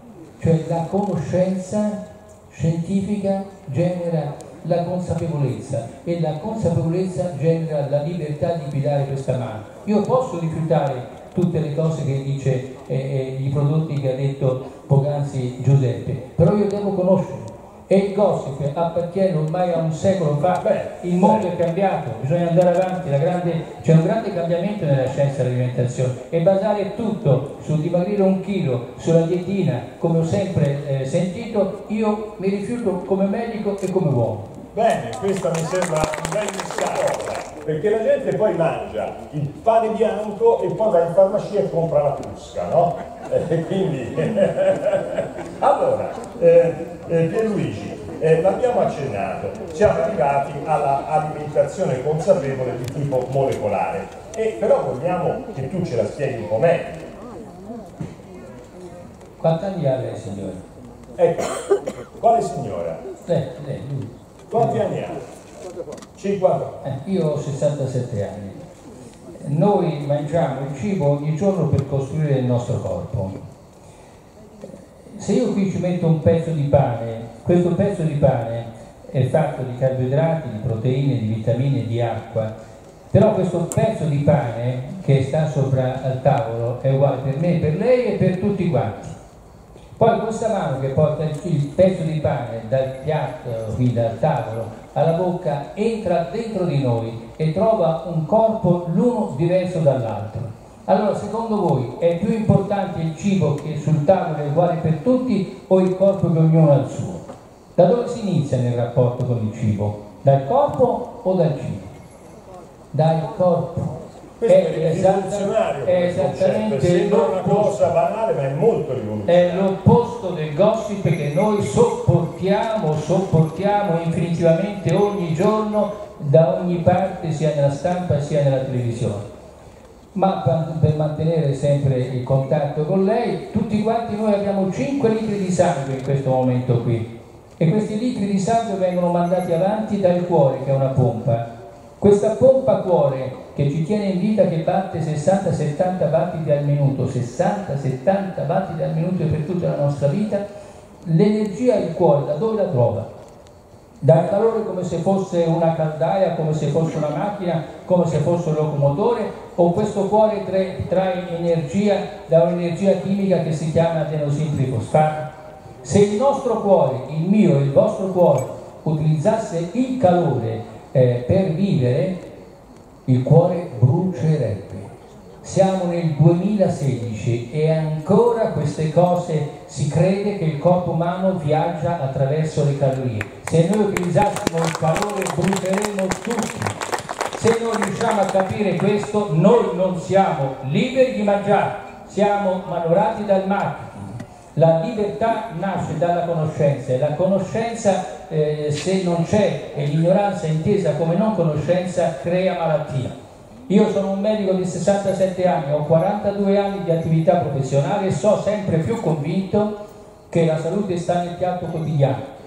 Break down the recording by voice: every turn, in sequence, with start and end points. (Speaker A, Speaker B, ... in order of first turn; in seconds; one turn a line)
Speaker A: 0.4-34.5
Speaker B: 20.6-21.5
Speaker B: 34.7-57.0
Speaker A: 59.4-60.6
Speaker B: 61.2-61.5
Speaker B: 62.2-63.0
Speaker A: 63.3-64.8
Speaker B: 64.5-65.2
Speaker B: 66.2-66.8
Speaker A: 66.8-68.6
Speaker A: 69.4-73.4
Speaker A: 75.1-82.5
Speaker A: 83.1-89.1
Speaker A: 90.0-111.9
Speaker A: 112.9-113.9
Speaker B: 114.4-119.7
Speaker A: 114.5-117.9
Speaker A: 119.3-129.3
Speaker A: 130.1-141.4
Speaker A: 142.0-150.4
Speaker A: 151.0-153.1
Speaker A: 154.0-165.3
Speaker A: 165.8-172.2
Speaker A: 173.1-174.9
Speaker A: 175.4-186.8
Speaker A: 187.3-203.1
Speaker A: 203.7-209.7
Speaker A: 210.3-212.3